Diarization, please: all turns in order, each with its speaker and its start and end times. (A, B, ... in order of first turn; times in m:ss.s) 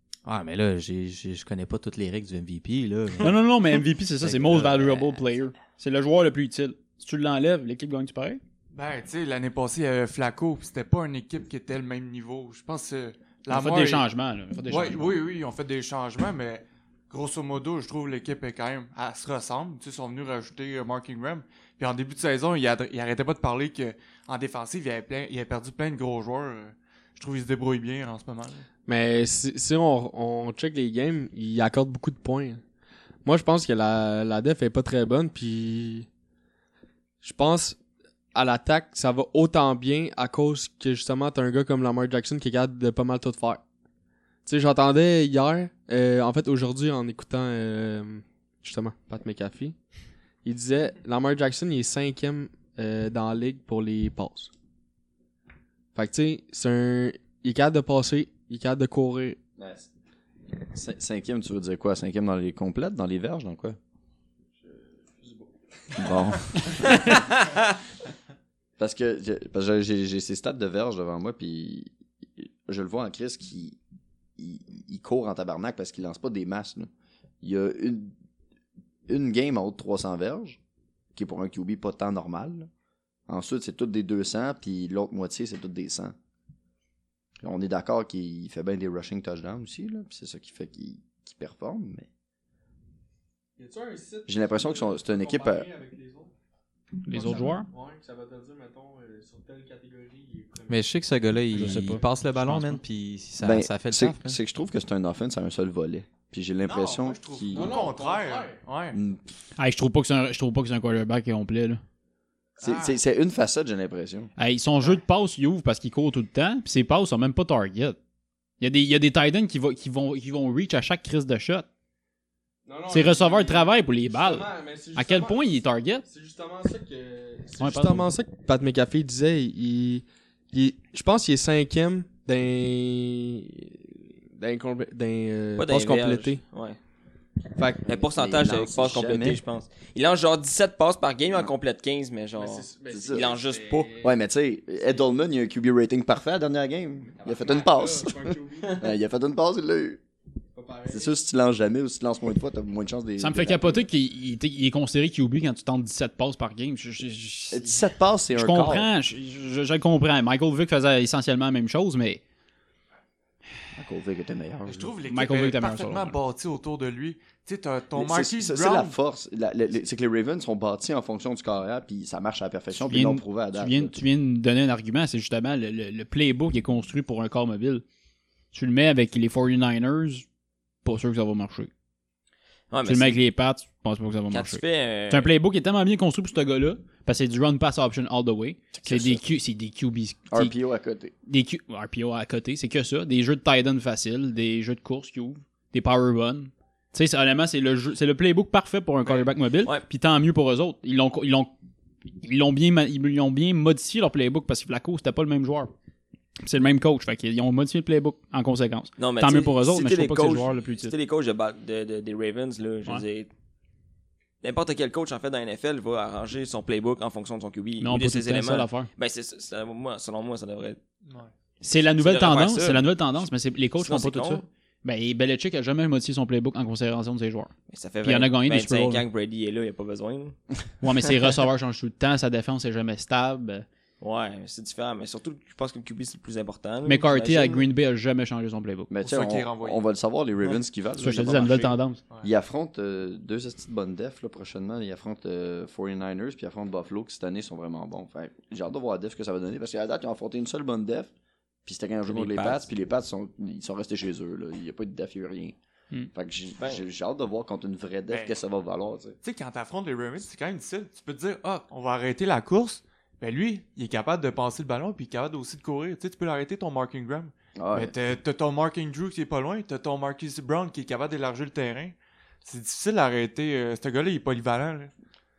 0:00.2-0:03.4 A
0:03.2-0:08.4 B
0:04.2-0:05.2 A
0:08.7-0:14.0 C
0:13.5-0:15.2 B
0:14.7-0:28.6 C
0:28.8-0:32.6 D
0:33.2-0:36.1 D
0:37.2-0:37.8 D
0:38.3-0:43.6 D
0:44.4-0:49.8 D
0:50.4-0:54.5 D
0:55.9-0:59.4 D
0:59.6-0:59.9 E
1:00.7-1:03.8 E
1:04.6-1:06.2 D
1:06.0-1:07.0 E
1:08.8-1:13.8 E
1:14.4-1:16.9 E
1:17.4-1:18.1 E
1:19.1-1:20.6 E
1:21.1-1:22.7 E
1:23.3-1:26.1 E
1:27.4-1:32.1 E
1:33.6-1:36.3 D
1:34.3-1:35.7 E
1:37.0-1:37.7 B
1:37.1-1:40.8 D
1:40.7-1:44.4 A
1:41.5-1:42.8 B
1:43.4-1:47.9 E
1:46.6-1:49.0 C
1:47.5-1:48.6 D
1:48.9-1:49.2 E
1:49.6-1:51.8 B
1:52.6-1:53.0 C
1:52.6-1:54.3 E
1:54.4-1:58.0 B
1:58.6-2:01.6 B
2:02.6-2:05.4 D
2:02.9-2:06.0 B
2:06.0-2:16.4 D
2:07.6-2:08.1 B
2:15.6-2:16.8 F
2:17.6-2:17.8 D
2:17.8-2:23.9 F
2:17.9-2:19.4 E
2:22.3-2:24.2 D
2:22.9-2:23.3 E
2:24.0-2:30.0 E
2:27.2-2:28.9 D
2:30.5-2:31.1 D
2:30.9-2:33.9 E
2:33.2-2:37.8 B
2:37.5-2:38.9 E
2:38.3-2:42.2 B
2:43.7-2:44.9 E
2:44.6-2:48.9 C
2:45.1-2:46.2 B
2:47.9-2:54.0 E
2:52.8-2:57.8 B
2:58.5-3:00.2 B
3:00.8-3:01.7 B
3:02.7-3:03.2 F
3:02.8-3:10.5 B
3:04.3-3:05.3 F
3:08.7-3:09.2 E
3:10.3-3:11.1 E
3:11.2-3:21.5 B
3:22.2-3:25.7 B
3:26.4-3:30.9 B
3:29.0-3:33.3 F
3:34.4-3:40.8 F
3:37.8-3:38.9 B
3:41.6-3:47.5 B
3:41.8-3:42.9 F
3:43.8-3:44.4 F
3:47.7-3:50.4 F
3:48.0-3:49.0 B
3:50.8-3:53.6 B
3:54.0-3:57.7 F
3:56.8-3:58.9 B
3:58.9-4:11.1 E
3:59.0-3:59.8 C
4:01.0-4:02.0 B
4:11.6-4:15.6 E
4:12.1-4:12.6 F
4:16.1-4:19.2 E
4:18.1-4:18.3 C
4:19.2-4:34.9 C
4:27.6-4:27.9 E